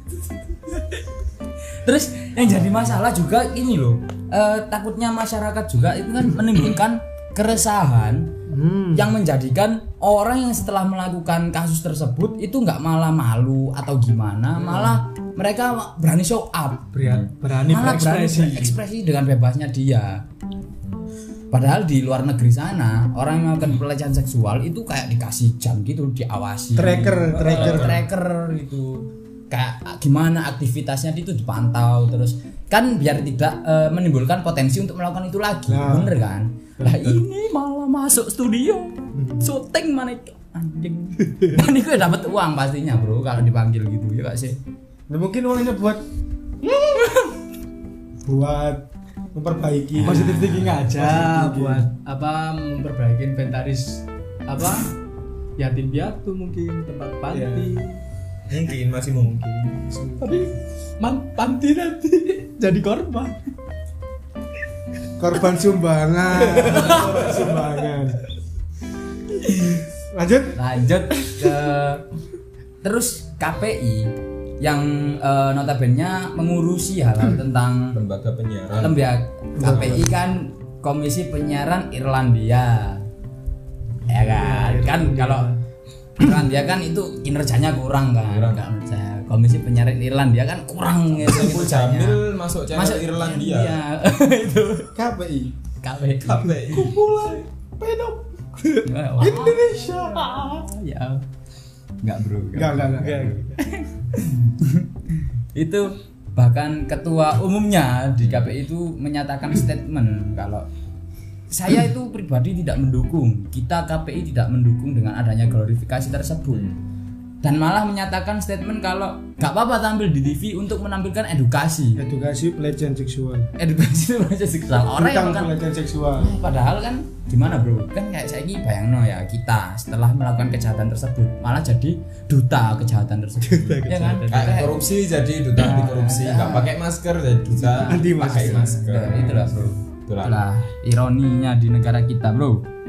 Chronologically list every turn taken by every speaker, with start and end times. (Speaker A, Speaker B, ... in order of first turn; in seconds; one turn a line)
Speaker A: 1.8-8.3
Speaker B: 8.5-9.1
Speaker A: 8.9-16.9
Speaker B: 14.6-14.9
Speaker C: 16.9-18.8
Speaker D: 17.0-17.3
Speaker A: 17.7-20.2
Speaker D: 20.8-21.1
Speaker A: 21.5-44.6
Speaker B: 26.7-28.1
Speaker D: 27.4-28.0
Speaker B: 35.7-36.1
Speaker D: 36.9-37.2
Speaker B: 39.1-39.5
Speaker B: 45.1-46.0
Speaker A: 46.8-47.3
Speaker B: 48.2-51.9
Speaker C: 50.0-55.0
Speaker D: 50.2-50.9
Speaker C: 55.6-58.0
Speaker B: 57.3-57.8
Speaker D: 58.5-59.7
Speaker B: 59.8-60.5
Speaker C: 60.2-63.4
Speaker B: 65.2-68.2
Speaker C: 66.3-67.7
Speaker B: 70.1-70.6
Speaker A: 70.5-72.0
Speaker A: 72.8-78.0
Speaker D: 77.9-79.0
Speaker A: 78.8-83.0
Speaker D: 79.6-80.2
Speaker A: 84.1-85.5
Speaker C: 84.1-85.6
Speaker A: 86.2-94.9
Speaker D: 88.1-88.6
Speaker D: 91.1-93.8
Speaker B: 94.9-95.5
Speaker A: 95.8-96.6
Speaker D: 96.2-97.0
Speaker C: 96.7-100.0
Speaker A: 98.8-101.2
Speaker B: 99.2-100.4
Speaker A: 102.0-110.7
Speaker B: 102.5-103.4
Speaker C: 102.9-103.6
Speaker D: 108.2-108.5
Speaker A: 111.5-116.6
Speaker D: 116.5-116.8
Speaker A: 117.4-122.0
Speaker B: 122.0-123.5
Speaker A: 123.6-125.5
Speaker B: 124.9-126.4
Speaker A: 126.2-134.8
Speaker C: 133.4-134.8
Speaker D: 134.3-140.4
Speaker A: 135.6-136.7
Speaker A: 137.5-142.6
Speaker B: 137.8-139.4